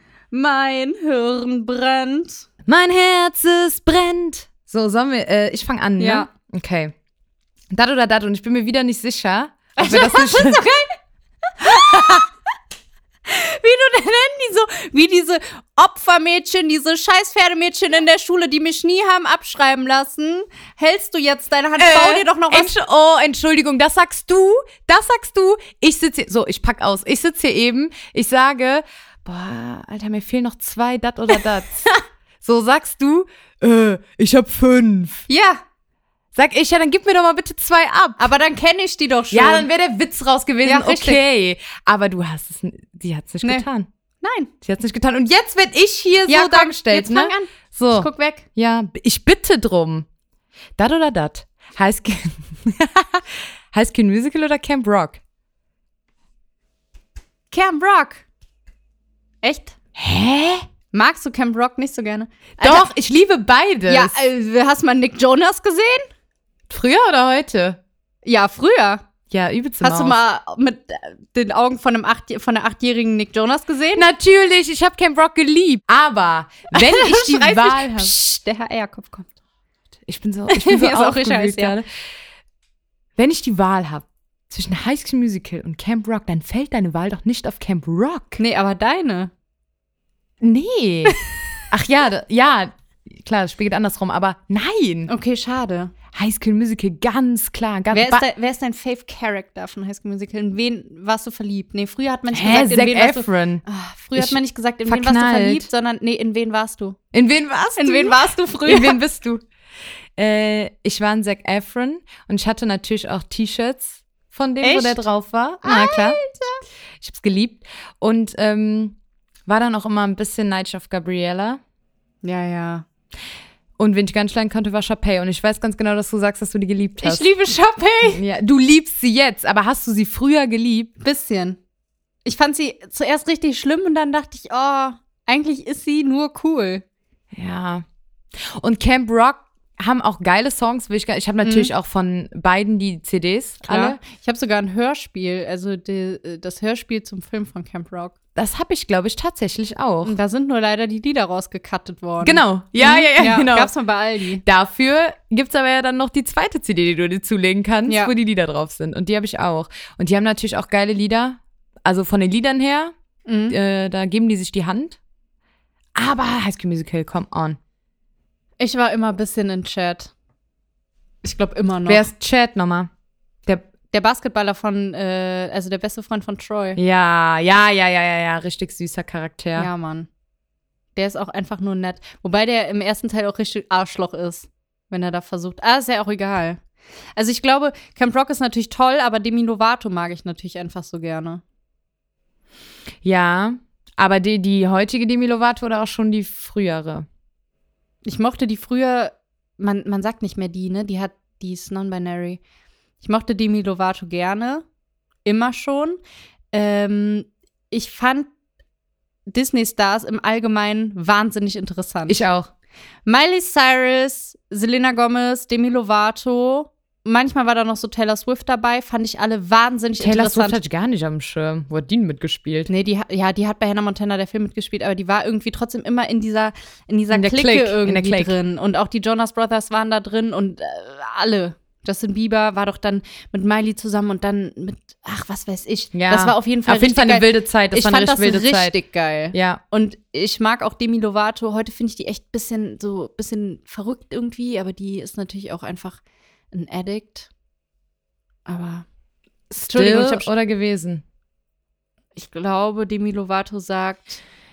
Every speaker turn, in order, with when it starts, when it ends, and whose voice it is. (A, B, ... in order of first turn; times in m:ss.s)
0:00.3-0:02.5 A
0:02.6-0:06.9 B
0:06.0-0:06.3 A
0:07.7-0:10.6 B
0:09.8-0:11.0 A
0:11.6-0:12.3 A
0:11.7-0:12.1 B
0:13.2-0:22.7 A
0:21.8-0:31.9 B
0:32.4-0:35.3 B
0:35.3-0:35.6 A
0:36.3-0:38.2 B
0:38.2-0:39.7 A
0:39.3-0:43.9 B
0:40.6-0:41.2 A
0:44.2-0:44.5 A
0:44.6-0:50.1 B
0:46.3-0:48.4 A
0:50.8-0:55.2 B
0:57.5-0:58.2 A
0:59.4-0:59.8 A
1:00.0-1:00.6 B
1:00.9-1:02.9 A
1:02.6-1:04.2 B
1:03.9-1:06.1 A
1:06.7-1:07.8 B
1:08.2-1:09.0 A
1:09.3-1:10.2 B
1:09.8-1:14.1 A
1:14.0-1:18.2 B
1:16.7-1:19.3 A
1:20.1-1:21.8 B
1:20.5-1:21.8 A
1:23.2-1:28.4 B
1:28.4-1:29.3 A
1:30.4-1:31.2 B
1:31.7-1:35.1 B
1:35.1-1:35.9 A
1:36.1-1:38.2 B
1:37.9-1:47.0 A
1:42.3-1:43.6 B
1:44.2-1:45.7 B
1:47.1-1:49.4 B
1:47.8-1:49.0 A
1:50.2-1:56.2 B
1:54.6-1:55.0 A
1:55.6-1:56.6 A
1:57.0-2:01.6 B
2:02.2-2:02.8 A
2:03.8-2:07.3 B
2:07.0-2:08.2 A
2:08.1-2:10.9 B
2:11.0-2:11.6 A
2:12.2-2:16.8 A
2:17.3-2:17.8 B
2:18.4-2:24.0 B
2:21.4-2:21.7 A
2:23.6-2:28.1 A
2:28.3-2:30.2 B
2:30.0-2:34.4 A
2:32.2-2:33.7 B
2:34.4-2:42.9 B
2:37.9-2:38.1 A
2:43.2-2:43.6 A
2:43.5-2:45.0 B
2:45.9-2:47.6 B
2:48.6-2:50.1 A
2:51.2-2:52.1 A
2:51.9-2:52.9 B
2:53.9-2:56.8 A
2:56.8-2:59.7 B
2:59.6-3:00.1 A
3:01.0-3:06.6 A
3:07.2-3:11.4 A
3:13.0-3:17.0 B
3:18.0-3:22.4 A
3:23.0-3:24.6 A
3:25.2-3:26.0 A
3:26.5-3:28.3 A
3:29.3-3:32.2 A
3:32.1-3:32.5 B
3:33.0-3:40.6 A
3:40.0-3:42.7 B
3:42.7-4:06.0 A
3:47.1-3:48.3 B
3:55.9-3:58.8 B
3:59.3-3:59.6 B
4:06.5-4:07.3 A
4:08.5-4:08.8 A
4:09.5-4:11.0 B
4:09.6-4:10.3 A
4:12.2-4:14.2 A